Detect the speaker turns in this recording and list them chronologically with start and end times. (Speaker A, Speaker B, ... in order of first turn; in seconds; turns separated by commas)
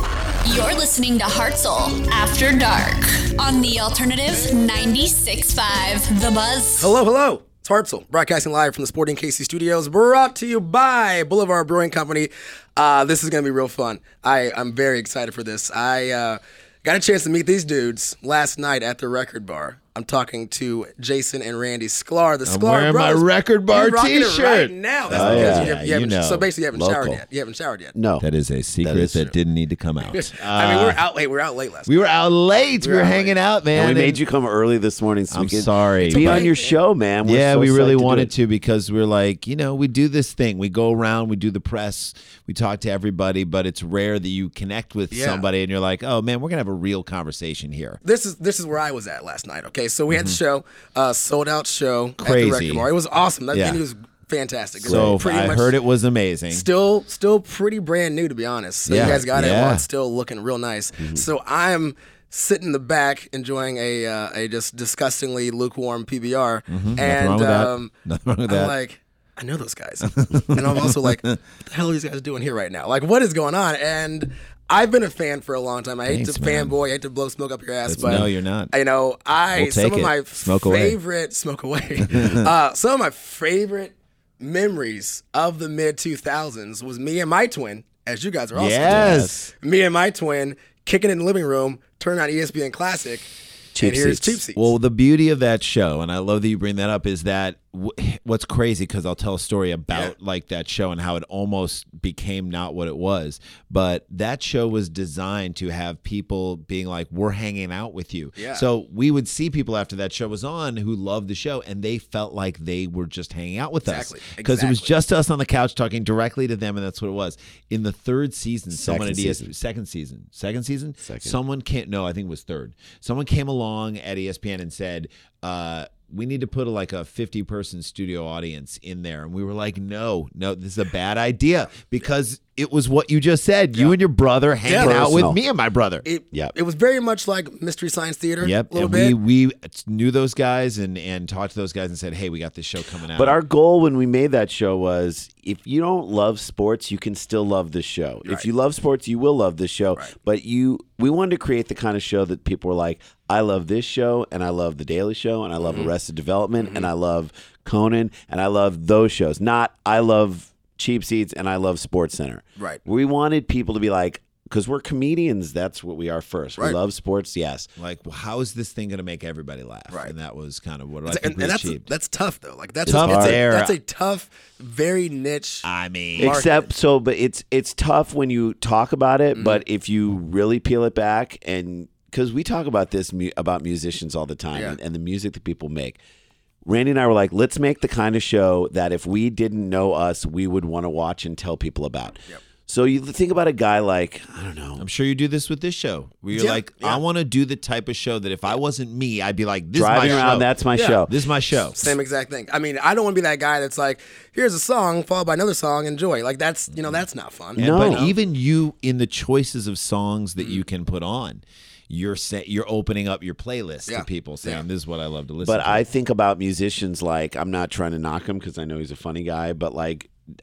Speaker A: 0.5-6.9, Speaker B: 6.8-27.9, Speaker C: 22.5-26.5, Speaker D: 25.1-25.8, Speaker D: 26.8-27.2, Speaker D: 27.9-28.2, Speaker C: 28.2-31.0, Speaker D: 28.8-29.3, Speaker B: 30.1-32.0, Speaker C: 31.9-34.2, Speaker B: 32.8-33.4, Speaker D: 33.7-38.3, Speaker C: 35.3-36.5, Speaker B: 36.0-36.8, Speaker C: 37.2-48.0, Speaker B: 45.1-45.4, Speaker B: 48.0-55.8, Speaker C: 50.1-50.4, Speaker C: 52.2-52.9, Speaker C: 53.5-53.8, Speaker D: 54.8-55.3, Speaker C: 54.9-56.7, Speaker B: 56.5-67.9, Speaker C: 58.9-59.8, Speaker D: 61.0-61.3, Speaker C: 66.7-68.7, Speaker B: 68.5-94.7, Speaker C: 70.0-71.4, Speaker C: 76.0-76.7, Speaker C: 77.9-78.7, Speaker C: 79.5-81.0, Speaker C: 82.1-82.5, Speaker C: 88.5-89.5, Speaker D: 88.8-89.4, Speaker D: 93.7-94.4, Speaker C: 94.5-136.1, Speaker B: 108.4-108.7, Speaker B: 113.8-114.9, Speaker D: 118.7-119.5, Speaker D: 121.0-121.4, Speaker B: 134.7-135.0, Speaker D: 134.7-135.4, Speaker B: 136.0-139.2, Speaker C: 138.4-143.4, Speaker D: 143.1-167.7, Speaker B: 155.6-155.9, Speaker B: 156.6-156.9, Speaker C: 167.8-171.9, Speaker B: 171.1-175.7, Speaker D: 172.9-173.4, Speaker C: 172.9-173.8, Speaker C: 175.7-176.4, Speaker D: 176.2-186.0, Speaker B: 176.2-176.6, Speaker B: 179.3-179.6, Speaker D: 186.7-194.8, Speaker C: 194.8-200.5, Speaker B: 196.3-197.0, Speaker D: 199.7-201.1, Speaker B: 200.0-201.0, Speaker C: 201.1-201.9, Speaker B: 201.7-208.1, Speaker C: 207.6-215.8, Speaker D: 207.6-208.1, Speaker B: 213.9-214.6, Speaker D: 215.4-220.1